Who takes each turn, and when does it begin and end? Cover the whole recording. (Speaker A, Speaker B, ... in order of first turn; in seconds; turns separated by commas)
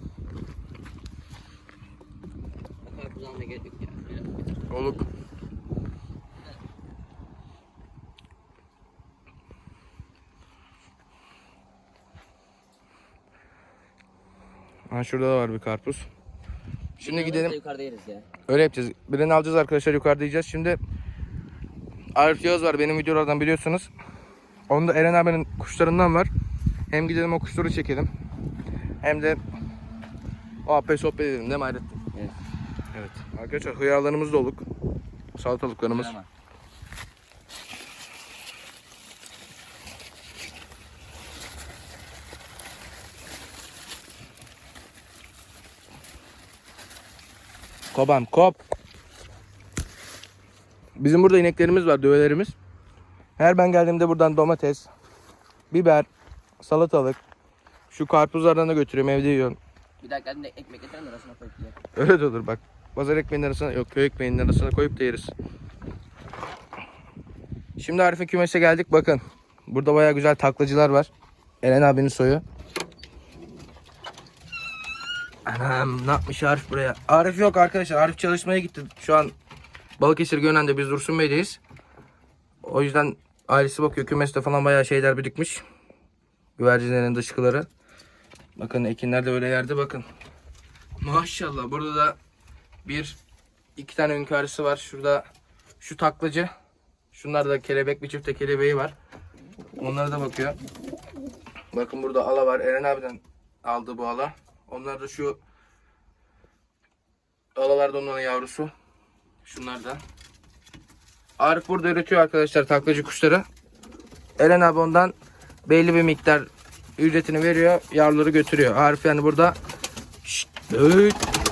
Speaker A: 2.8-4.6, Speaker B: 4.7-5.1, Speaker B: 14.9-16.1, Speaker B: 17.0-17.5, Speaker A: 17.0-18.3, Speaker B: 18.5-20.8, Speaker B: 22.1-23.9, Speaker B: 24.7-26.3, Speaker B: 26.9-28.1, Speaker B: 29.0-29.4, Speaker B: 30.6-32.0, Speaker B: 32.9-34.6, Speaker B: 35.4-36.1, Speaker A: 35.9-36.3, Speaker B: 47.9-48.6, Speaker B: 51.0-52.5, Speaker B: 53.4-54.9, Speaker B: 55.7-56.1, Speaker B: 56.6-57.2, Speaker B: 57.9-59.6, Speaker A: 60.0-61.8, Speaker B: 61.9-65.3, Speaker B: 67.8-71.1, Speaker B: 71.6-72.4, Speaker B: 75.5-79.3, Speaker B: 80.0-81.6, Speaker B: 82.6-85.6, Speaker B: 86.6-87.7, Speaker B: 88.6-90.1, Speaker B: 91.0-92.2, Speaker B: 92.8-93.2, Speaker B: 93.8-95.3, Speaker B: 95.8-96.5, Speaker B: 97.1-98.9, Speaker B: 99.8-100.6, Speaker B: 101.7-105.4, Speaker B: 107.6-108.7, Speaker B: 109.4-110.0, Speaker B: 111.4-113.5, Speaker B: 114.4-115.1, Speaker B: 115.7-119.6, Speaker B: 120.2-121.2